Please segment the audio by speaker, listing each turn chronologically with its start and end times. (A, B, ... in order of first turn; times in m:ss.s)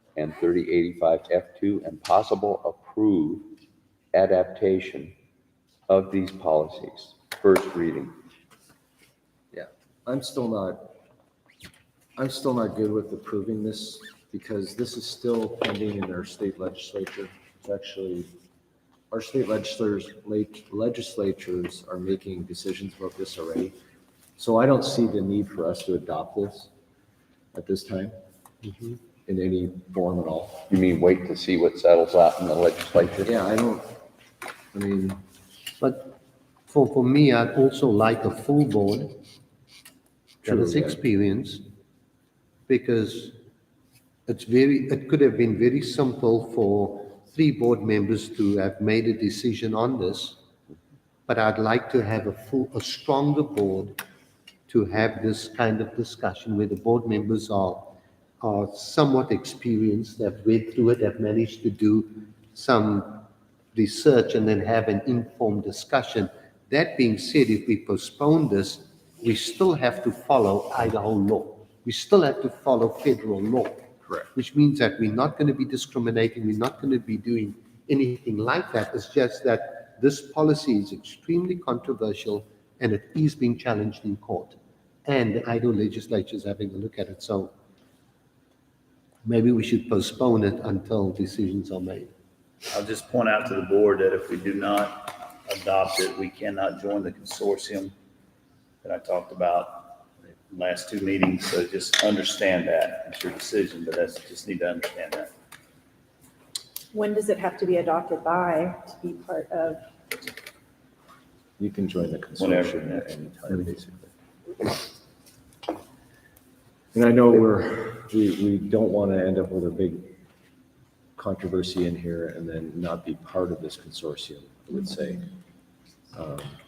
0:00.2-0:03.5 A
0:04.1-0:05.1 A
0:05.9-0:08.1 A
0:09.5-0:11.0 B
0:12.2-0:18.3 B
0:19.1-0:23.7 B
0:24.4-0:26.7 B
0:27.5-0:28.1 B
0:28.6-0:29.0 C
0:29.3-0:30.6 B
0:30.7-0:33.3 A
0:33.2-0:34.0 B
0:34.7-0:35.2 B
0:35.8-0:36.1 C
0:36.7-0:39.2 C
0:40.4-0:41.0 B
0:40.4-0:41.6 C
0:42.7-0:43.4 C
0:44.3-0:50.4 C
0:51.3-0:54.0 C
0:54.7-1:27.5 C
1:29.2-1:32.1 C
1:32.7-1:37.9 D
1:38.8-1:45.3 D
1:46.9-1:49.8 E
1:51.6-1:54.1 B
1:52.4-1:53.1 D
1:56.9-2:00.1 B
2:01.2-2:05.3 B
2:06.1-2:06.6 B